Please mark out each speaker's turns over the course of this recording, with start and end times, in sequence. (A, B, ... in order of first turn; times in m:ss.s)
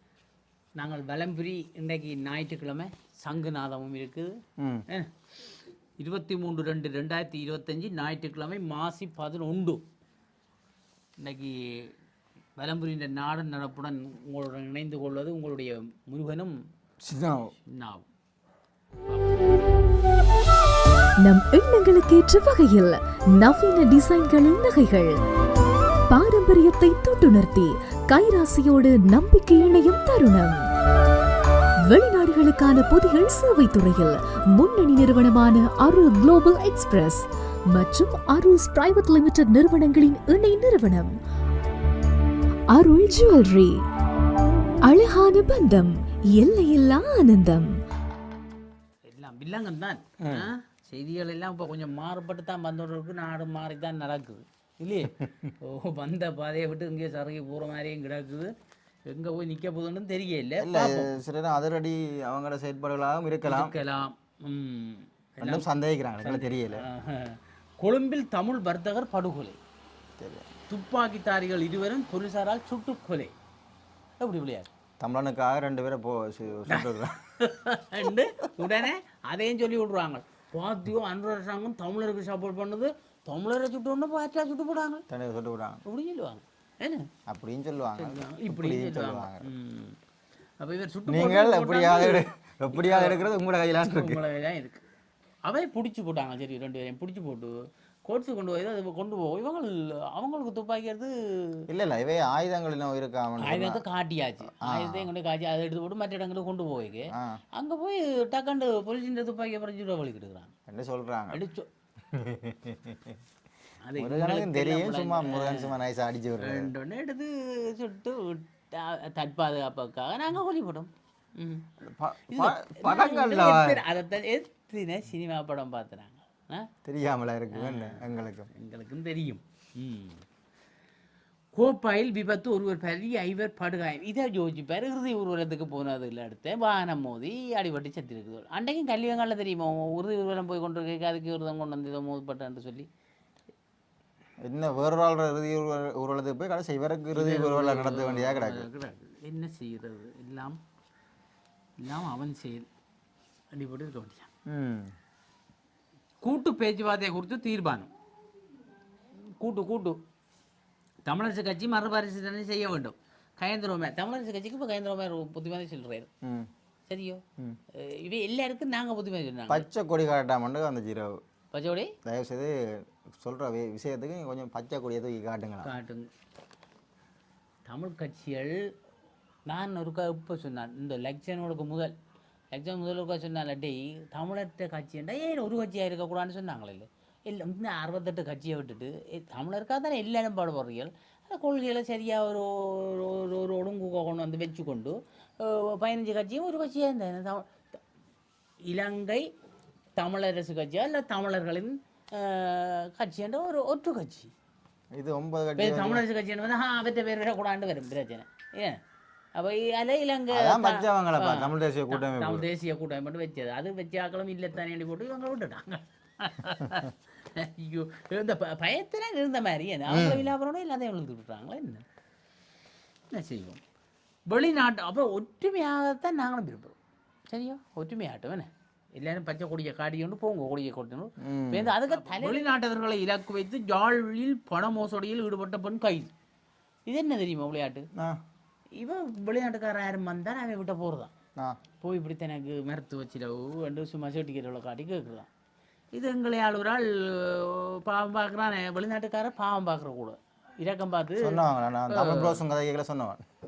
0:00.8-0:04.3 A
0:04.6-0:04.8 B
0:06.0-0:09.8 A
0:11.2-0:11.9 A
0:12.6-0:16.6 A
0:17.0-0:17.5 B
0:17.6-0:18.1 A
0:19.1-0:19.4 A
0:21.2-0:25.2 C
0:26.1-0:30.6 C
0:31.8-0:41.2 C
0:42.7-0:43.8 C
0:44.8-0:47.8 C
0:49.1-0:58.5 A
0:50.2-0:50.5 B
0:55.2-0:55.5 B
0:59.1-1:01.2 A
1:00.6-1:03.8 B
1:03.5-1:05.6 A
1:05.4-1:06.8 B
1:06.2-1:09.6 A
1:10.2-1:10.4 B
1:10.7-1:13.3 A
1:14.2-1:14.7 A
1:15.0-1:17.2 B
1:16.7-1:25.0 A
1:25.1-1:25.8 B
1:25.8-1:27.1 A
1:27.3-1:29.5 B
1:28.0-1:30.0 A
1:30.6-1:33.2 A
1:31.1-1:34.2 B
1:33.8-1:34.8 A
1:35.4-1:37.5 A
1:38.0-1:41.6 A
1:41.7-1:43.8 B
1:43.4-1:50.5 A
1:44.6-1:45.1 B
1:47.1-1:47.4 B
1:50.7-1:51.4 B
1:51.3-1:51.7 A
1:52.1-1:53.2 B
1:53.8-1:55.7 A
1:54.0-1:56.7 B
1:56.4-2:01.7 A
2:01.8-2:03.8 B
2:02.3-2:06.7 A
2:06.8-2:08.5 B
2:07.5-2:10.2 A
2:11.5-2:22.9 A
2:24.4-2:28.7 B
2:27.1-2:30.6 A
2:31.8-2:32.7 A
2:33.5-2:34.3 A
2:34.5-2:34.9 B
2:36.2-2:37.9 A
2:39.4-2:40.0 A
2:41.0-2:46.1 A
2:46.2-2:46.5 B
2:46.9-2:47.2 A
2:47.8-2:49.6 A
2:49.5-2:51.2 B
2:51.5-2:51.9 A
2:52.0-2:55.7 B
2:55.6-2:56.1 A
2:57.6-2:58.7 A
2:59.5-3:01.9 A
3:02.5-3:17.8 A
3:18.6-3:19.3 A
3:20.0-3:24.3 A
3:24.9-3:26.0 B
3:25.6-3:28.8 A
3:29.3-3:41.8 A
3:30.3-3:32.5 B
3:39.9-3:40.3 B
3:43.1-3:43.6 A
3:44.3-3:46.7 A
3:47.3-3:56.1 A
3:51.2-3:51.7 B
3:56.9-3:57.8 A
3:58.8-4:01.1 A
4:01.8-4:05.3 A
4:05.9-4:12.4 A
4:11.2-4:13.2 B